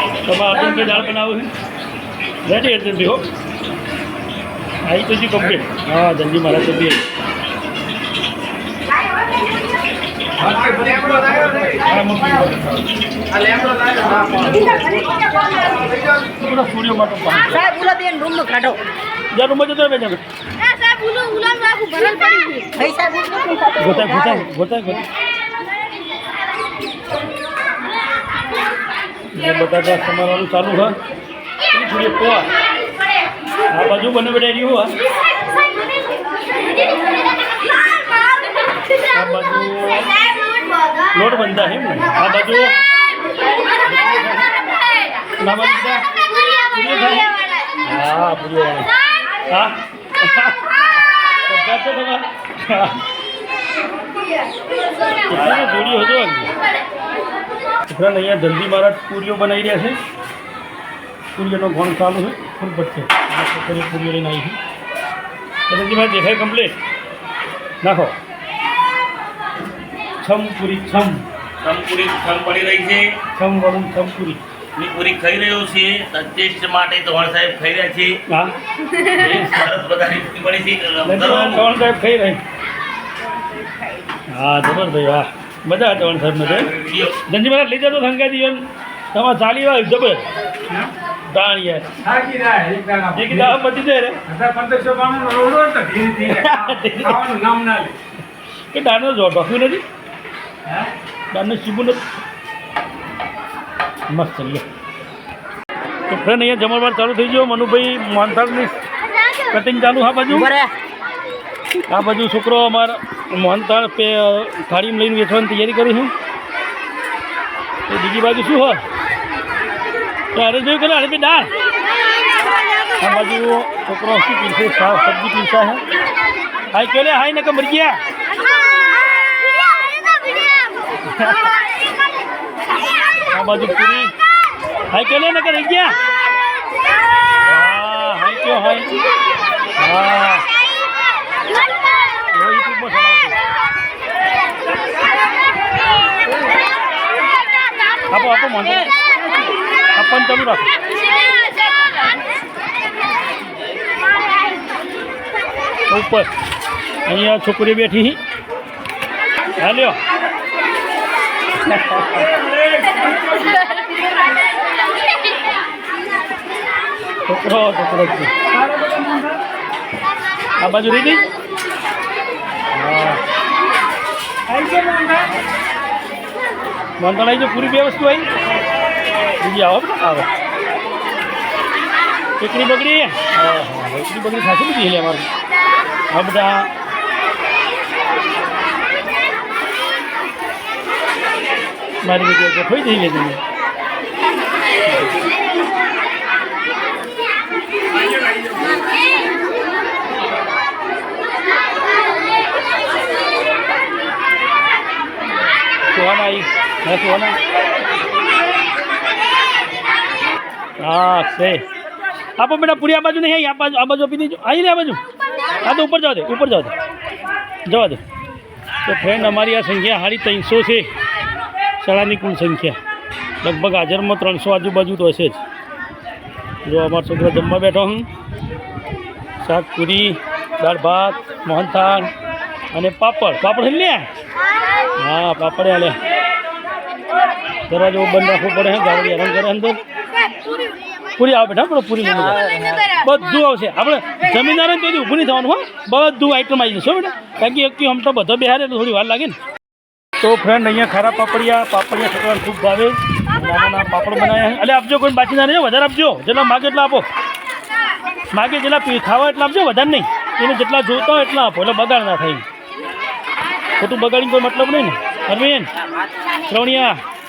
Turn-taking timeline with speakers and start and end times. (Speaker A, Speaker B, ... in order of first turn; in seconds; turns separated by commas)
Speaker A: 0.2-1.5, Speaker A: 2.4-3.3, Speaker A: 4.8-7.0, Speaker B: 10.4-11.8, Speaker A: 11.8-12.8, Speaker B: 13.3-14.5, Speaker A: 13.8-15.2, Speaker A: 16.3-17.7, Speaker C: 17.7-18.8, Speaker A: 19.3-20.2, Speaker C: 22.7-23.8, Speaker A: 23.8-25.1, Speaker A: 29.3-30.9, Speaker A: 31.7-32.5, Speaker A: 33.7-35.0, Speaker A: 39.1-40.2, Speaker A: 41.1-42.8, Speaker A: 43.8-44.5, Speaker A: 45.4-46.0, Speaker A: 46.7-47.3, Speaker A: 47.8-48.9, Speaker A: 49.5-50.8, Speaker A: 51.4-53.0, Speaker A: 55.3-56.5, Speaker A: 57.9-60.0, Speaker A: 61.4-64.6, Speaker A: 65.7-66.8, Speaker A: 67.8-68.2, Speaker A: 70.2-71.2, Speaker D: 71.6-73.2, Speaker A: 73.3-74.4, Speaker D: 74.8-78.2, Speaker A: 78.3-78.5, Speaker D: 79.0-81.7, Speaker A: 79.2-79.5, Speaker A: 81.0-82.4, Speaker A: 84.3-86.7, Speaker D: 86.4-87.2, Speaker A: 87.2-90.2, Speaker A: 91.3-92.0, Speaker B: 92.0-93.5, Speaker A: 93.1-94.2, Speaker B: 94.3-98.0, Speaker A: 96.2-97.3, Speaker A: 98.7-99.8, Speaker A: 101.3-102.0, Speaker A: 104.1-104.7, Speaker A: 106.1-108.8, Speaker A: 109.5-110.5, Speaker A: 111.9-116.1, Speaker A: 117.9-118.8, Speaker A: 120.3-121.5, Speaker A: 123.0-125.8, Speaker A: 126.7-128.0, Speaker A: 131.0-131.5, Speaker A: 133.2-134.1, Speaker A: 134.9-136.0, Speaker A: 137.4-138.9, Speaker A: 139.8-140.4, Speaker A: 142.3-143.4, Speaker A: 148.1-148.9, Speaker A: 149.9-150.7, Speaker A: 155.9-156.3, Speaker A: 157.1-158.2, Speaker A: 159.6-160.0, Speaker A: 161.7-162.3, Speaker B: 162.6-163.0, Speaker A: 167.2-168.3, Speaker B: 168.5-169.4, Speaker A: 170.6-171.2, Speaker A: 172.7-173.2, Speaker B: 174.5-175.3, Speaker A: 177.0-178.3, Speaker A: 179.4-180.3, Speaker A: 182.4-185.3, Speaker A: 186.1-186.7, Speaker A: 192.0-193.4, Speaker A: 194.8-195.1, Speaker A: 205.9-207.4, Speaker A: 210.8-211.6, Speaker A: 212.4-215.0, Speaker A: 215.6-216.7, Speaker A: 217.7-218.0, Speaker A: 218.8-220.9, Speaker A: 221.8-222.8, Speaker A: 223.4-225.4, Speaker A: 226.6-228.1, Speaker A: 229.4-232.1, Speaker A: 232.7-234.1, Speaker A: 235.0-236.0, Speaker A: 237.7-239.8, Speaker A: 241.2-249.4, Speaker A: 250.2-257.1, Speaker A: 258.3-262.4, Speaker A: 263.8-265.7, Speaker A: 266.5-267.0